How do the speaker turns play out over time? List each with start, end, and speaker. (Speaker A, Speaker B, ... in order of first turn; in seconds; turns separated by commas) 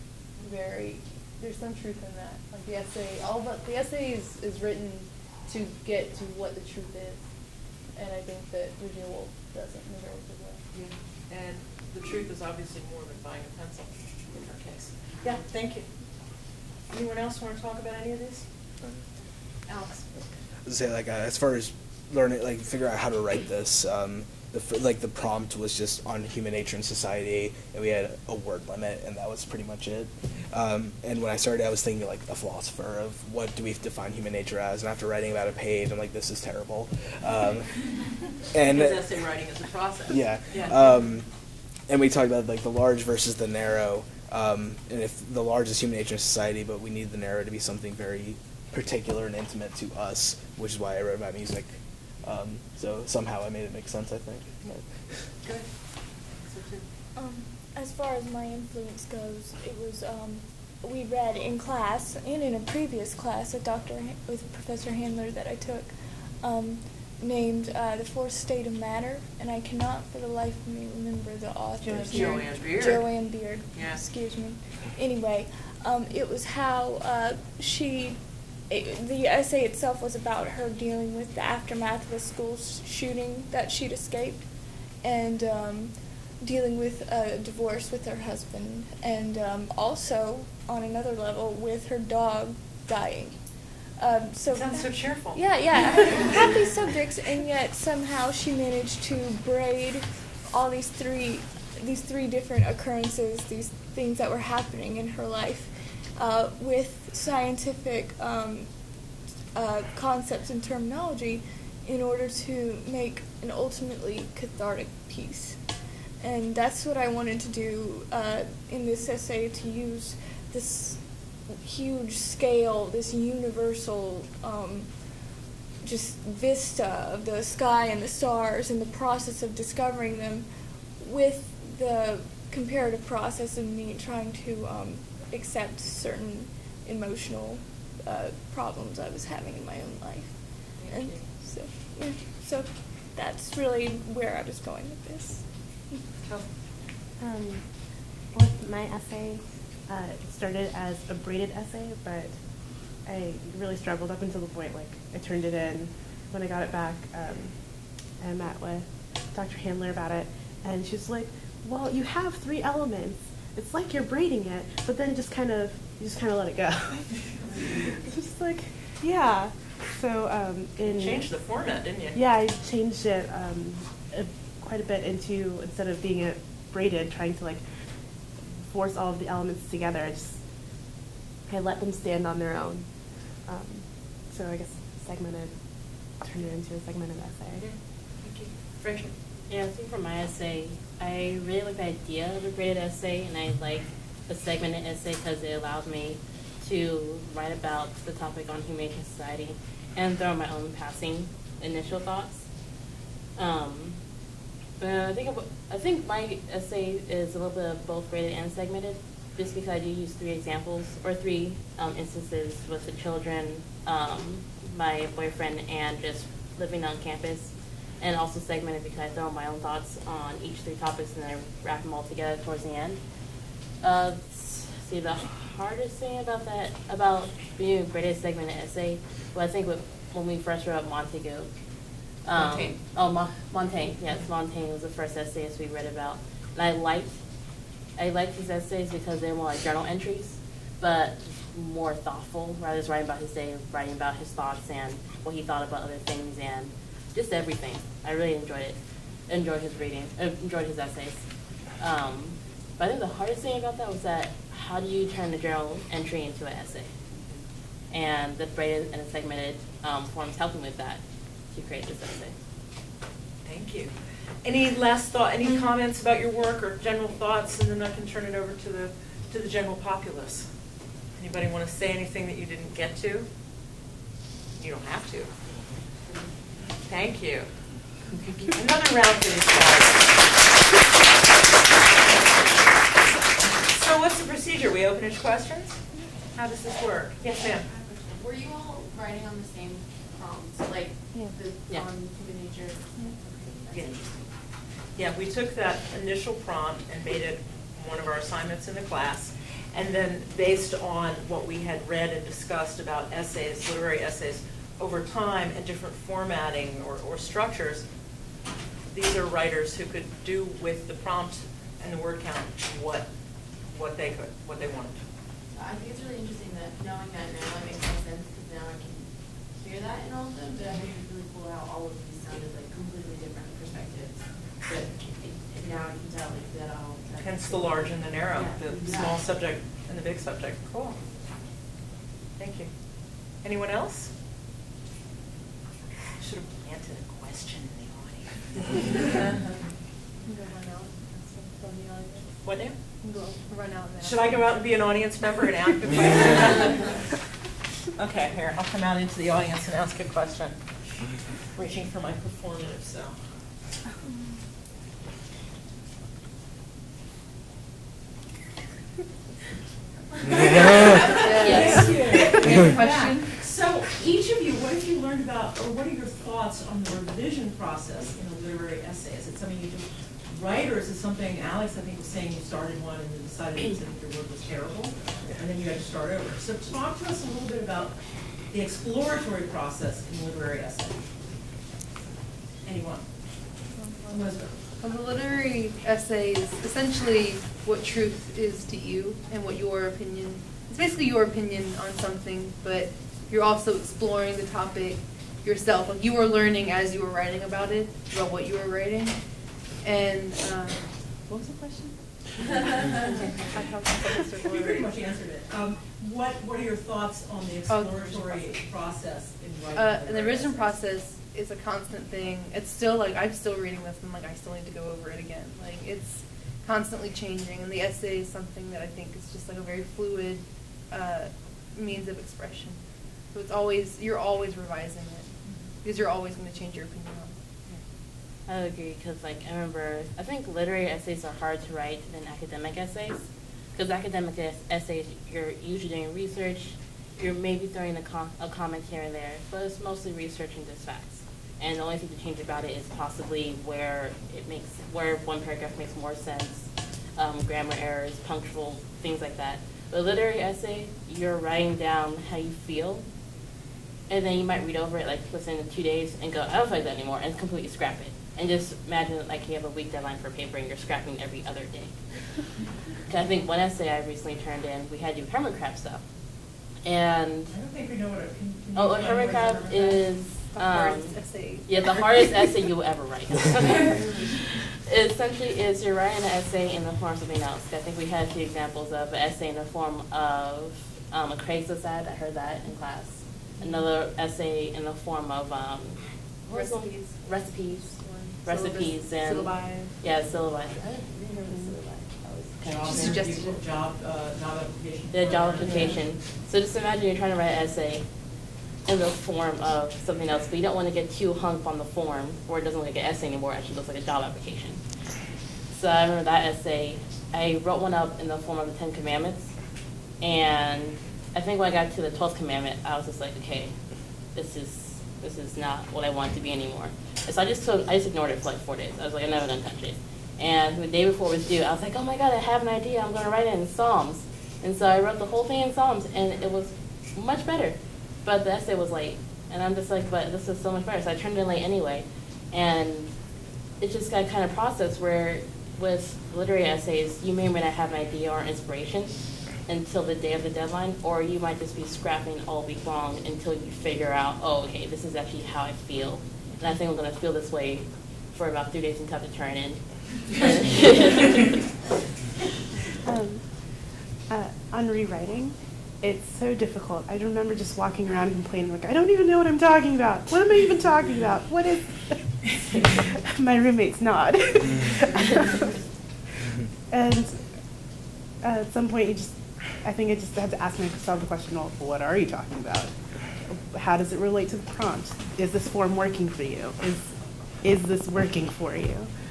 Speaker A: 0.4-7.2, Speaker A: 7.9-10.6, Speaker B: 10.7-15.8, Speaker B: 16.9-18.4, Speaker B: 19.7-20.2, Speaker C: 20.6-37.8, Speaker C: 38.5-39.1, Speaker B: 38.5-40.9, Speaker C: 40.1-41.3, Speaker C: 41.9-54.8, Speaker B: 55.4-55.7, Speaker B: 56.3-56.8, Speaker D: 57.1-84.5, Speaker B: 71.8-74.0, Speaker D: 85.0-93.4, Speaker D: 94.0-108.7, Speaker B: 94.5-96.6, Speaker D: 109.5-115.6, Speaker D: 116.2-125.1, Speaker D: 125.8-146.0, Speaker B: 140.8-141.2, Speaker E: 147.2-147.7, Speaker E: 148.3-152.4, Speaker E: 153.0-171.3, Speaker B: 170.8-172.2, Speaker E: 172.1-177.6, Speaker E: 178.7-180.4, Speaker E: 181.5-182.9, Speaker E: 183.4-187.7, Speaker B: 187.6-189.1, Speaker F: 189.5-202.5, Speaker F: 203.4-204.0, Speaker F: 204.8-223.0, Speaker F: 223.8-231.5, Speaker F: 232.2-237.2, Speaker G: 232.3-232.7, Speaker F: 238.0-248.8, Speaker F: 249.3-251.2, Speaker F: 251.8-256.9, Speaker F: 257.9-261.0, Speaker F: 261.5-262.3, Speaker B: 263.4-270.5, Speaker B: 271.2-273.3, Speaker B: 274.6-275.3, Speaker B: 276.9-277.5, Speaker B: 278.5-280.2, Speaker B: 283.6-285.8, Speaker B: 286.3-287.7, Speaker G: 287.4-294.2, Speaker B: 293.7-294.1, Speaker B: 294.9-307.9, Speaker B: 308.9-313.1, Speaker B: 313.7-315.0, Speaker G: 315.5-329.2, Speaker B: 327.2-331.0, Speaker B: 332.4-332.7, Speaker B: 333.4-334.1, Speaker B: 336.2-339.3, Speaker A: 340.2-342.3, Speaker B: 342.4-342.8, Speaker A: 343.0-344.4, Speaker B: 344.0-347.1, Speaker B: 347.9-353.1, Speaker B: 360.3-377.9, Speaker A: 360.3-363.3, Speaker G: 360.4-362.5, Speaker F: 361.5-361.8, Speaker B: 378.5-381.0, Speaker B: 382.6-383.1, Speaker A: 383.8-399.2, Speaker B: 384.1-384.6, Speaker A: 399.8-401.9, Speaker A: 403.0-404.9, Speaker B: 404.4-410.7, Speaker A: 407.7-408.6, Speaker A: 409.7-422.8, Speaker A: 423.3-427.4, Speaker F: 428.5-453.0, Speaker F: 454.1-462.5, Speaker F: 463.1-466.0, Speaker F: 466.8-467.6, Speaker B: 467.5-470.0, Speaker F: 468.7-493.2, Speaker A: 470.4-472.2, Speaker A: 486.5-489.9, Speaker B: 492.6-496.0, Speaker A: 492.9-493.6, Speaker F: 495.1-498.1, Speaker F: 498.9-504.8, Speaker F: 505.7-509.5, Speaker F: 510.2-513.8, Speaker F: 514.3-533.1, Speaker F: 533.8-539.1, Speaker F: 539.7-551.6, Speaker E: 553.0-565.7, Speaker E: 566.9-567.5, Speaker E: 568.4-579.1